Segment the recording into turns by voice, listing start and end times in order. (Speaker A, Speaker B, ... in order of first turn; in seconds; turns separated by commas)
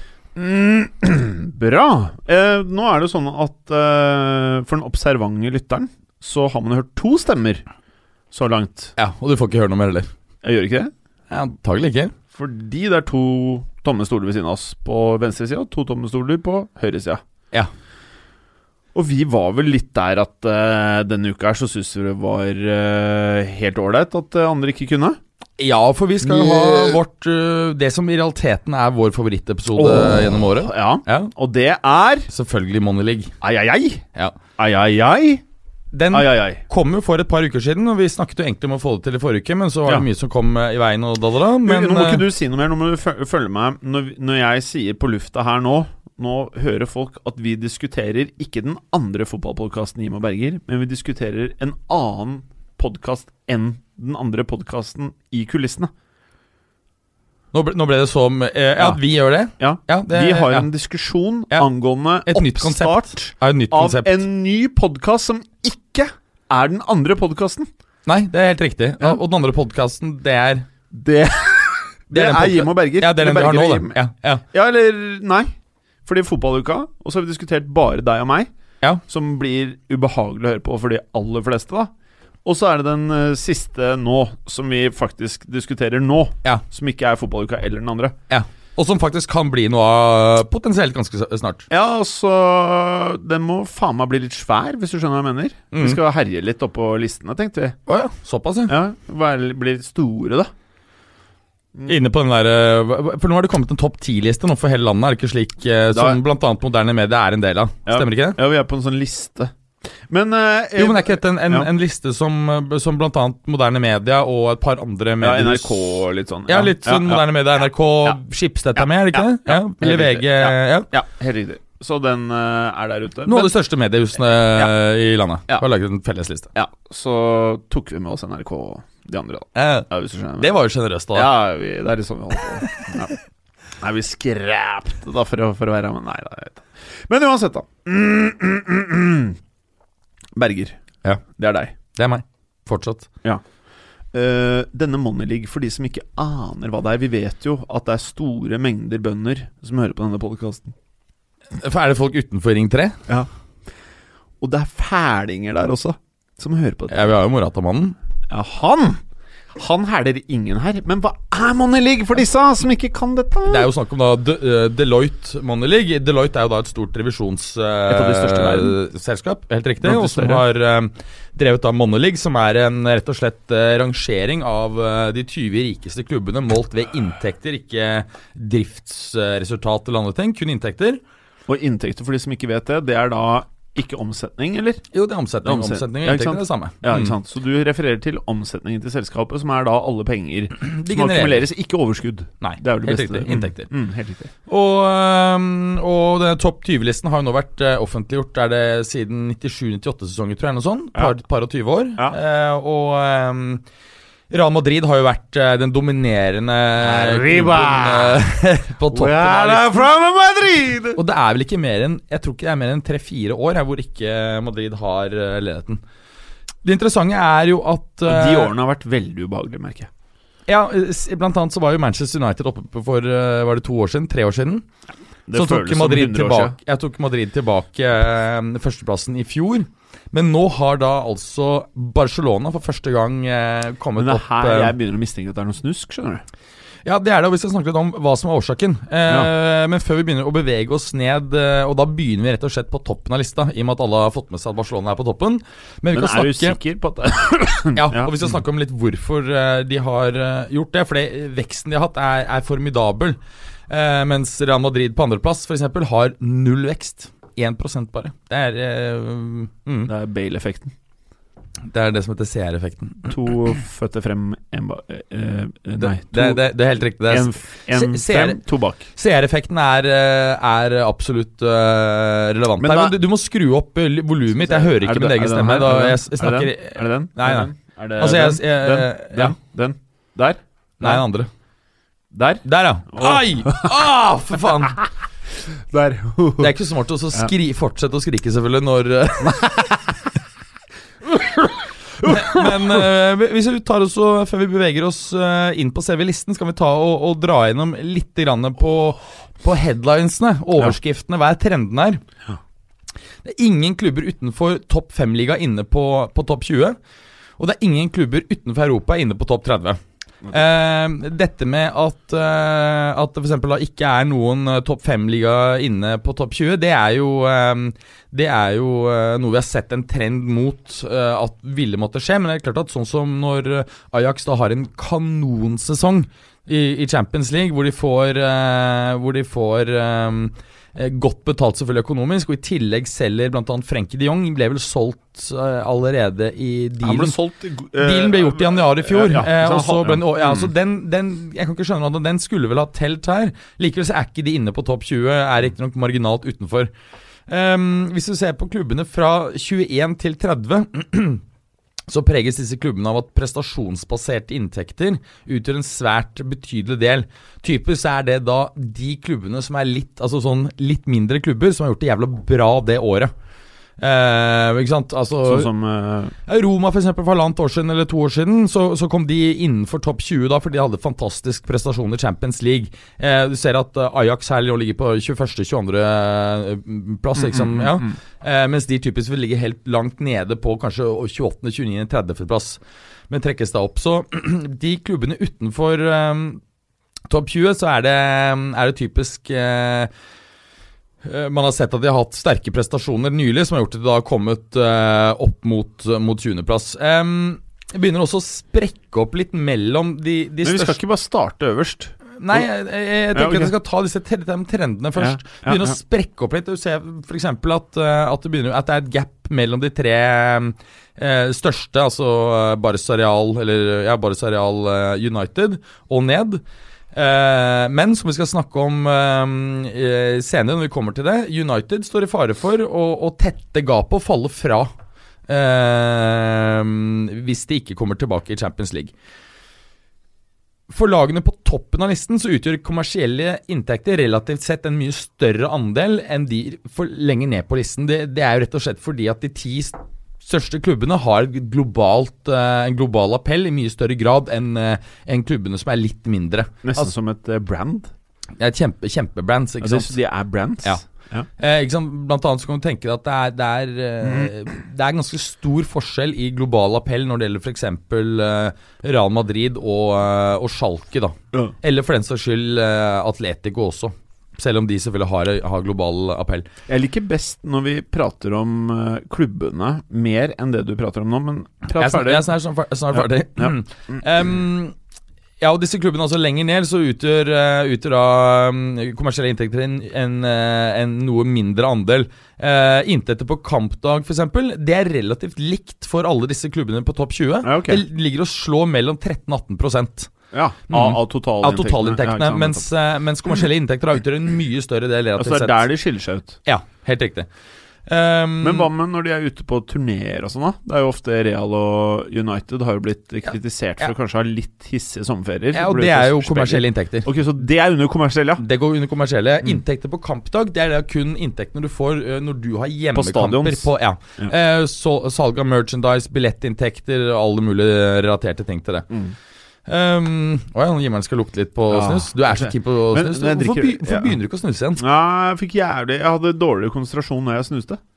Speaker A: 0.3-7.6, Speaker A: 8.3-8.9, Speaker B: 9.0-10.1, Speaker A: 10.4-10.9, Speaker B: 11.3-12.1, Speaker A: 12.3-17.2, Speaker A: 18.9-25.2, Speaker B: 25.6-31.3, Speaker A: 26.2-27.0, Speaker A: 29.7-32.3, Speaker B: 32.3-33.3, Speaker A: 33.4-34.0, Speaker A: 34.6-35.4, Speaker B: 35.9-42.2, Speaker A: 36.1-36.6, Speaker A: 41.6-55.9, Speaker B: 57.5-60.7, Speaker A: 59.6-67.7, Speaker B: 62.2-64.2, Speaker B: 68.0-70.7, Speaker A: 70.9-74.0, Speaker B: 72.1-74.4, Speaker A: 74.5-75.5, Speaker A: 76.0-78.5, Speaker A: 79.0-81.9, Speaker A: 82.4-88.2, Speaker B: 88.3-91.7, Speaker A: 91.7-97.8, Speaker B: 95.7-96.0, Speaker B: 97.9-98.8, Speaker A: 98.7-100.5, Speaker B: 101.9-108.4, Speaker A: 105.9-106.2, Speaker A: 107.8-109.5, Speaker A: 110.1-111.7, Speaker B: 110.8-120.9, Speaker A: 115.2-117.2, Speaker A: 118.8-123.5, Speaker B: 123.3-126.5, Speaker A: 124.3-124.7, Speaker A: 126.5-130.5, Speaker B: 129.5-129.9, Speaker B: 130.4-131.3, Speaker A: 131.1-133.1, Speaker A: 133.8-139.4, Speaker A: 140.3-141.7, Speaker B: 141.9-143.1, Speaker A: 144.1-150.7, Speaker B: 151.5-153.0, Speaker A: 154.4-157.1, Speaker B: 156.9-157.9, Speaker A: 158.3-159.0, Speaker A: 159.5-163.7, Speaker B: 163.4-181.0, Speaker A: 167.9-168.7, Speaker A: 169.8-170.4, Speaker A: 181.5-184.8, Speaker B: 184.9-187.2, Speaker A: 185.4-194.3, Speaker B: 190.6-191.5, Speaker B: 192.4-193.7, Speaker B: 194.5-203.6, Speaker B: 204.3-209.9, Speaker A: 206.8-208.2, Speaker A: 208.9-211.0, Speaker B: 210.9-215.8, Speaker B: 216.6-218.5, Speaker A: 218.0-219.9, Speaker B: 220.5-224.6, Speaker A: 225.3-226.6, Speaker B: 225.3-234.7, Speaker A: 234.0-236.2, Speaker B: 236.8-246.6, Speaker A: 245.9-248.3, Speaker B: 247.7-253.2, Speaker B: 253.7-259.9, Speaker A: 259.9-260.7, Speaker B: 261.7-263.1, Speaker A: 263.0-266.4, Speaker B: 265.8-268.4, Speaker A: 267.1-268.9, Speaker B: 268.9-279.4, Speaker A: 272.6-272.9, Speaker A: 274.3-281.0, Speaker B: 280.8-281.3, Speaker A: 282.1-283.8, Speaker B: 282.4-284.8, Speaker A: 285.7-286.5, Speaker B: 286.4-289.9, Speaker A: 289.2-289.6, Speaker A: 291.0-292.9, Speaker B: 292.0-302.0, Speaker B: 303.2-306.8, Speaker B: 307.4-309.8, Speaker B: 310.3-337.1, Speaker A: 336.8-340.5, Speaker B: 337.8-346.7, Speaker B: 347.3-351.2, Speaker B: 351.9-363.1, Speaker B: 363.8-365.5, Speaker A: 365.2-366.1, Speaker B: 366.2-386.4, Speaker A: 377.1-377.9, Speaker B: 387.1-389.9, Speaker B: 391.0-400.8, Speaker A: 400.4-402.4, Speaker B: 402.2-416.4, Speaker A: 403.1-403.5, Speaker A: 405.0-405.8, Speaker B: 416.9-424.7, Speaker B: 425.3-428.9, Speaker B: 430.7-446.9, Speaker A: 446.6-447.9, Speaker B: 448.4-450.0, Speaker A: 449.6-451.3, Speaker B: 451.4-466.5, Speaker A: 454.0-454.3, Speaker A: 466.7-472.2, Speaker B: 471.7-474.7, Speaker A: 472.9-474.0, Speaker B: 475.4-490.1, Speaker A: 487.4-487.8, Speaker A: 490.3-492.6, Speaker B: 490.7-495.7, Speaker A: 495.2-496.4, Speaker B: 496.4-497.3, Speaker B: 497.9-498.7, Speaker A: 498.4-508.4, Speaker B: 505.5-507.1, Speaker B: 508.4-518.9, Speaker A: 512.9-514.3, Speaker B: 519.7-524.8, Speaker A: 521.7-524.1, Speaker A: 524.8-527.8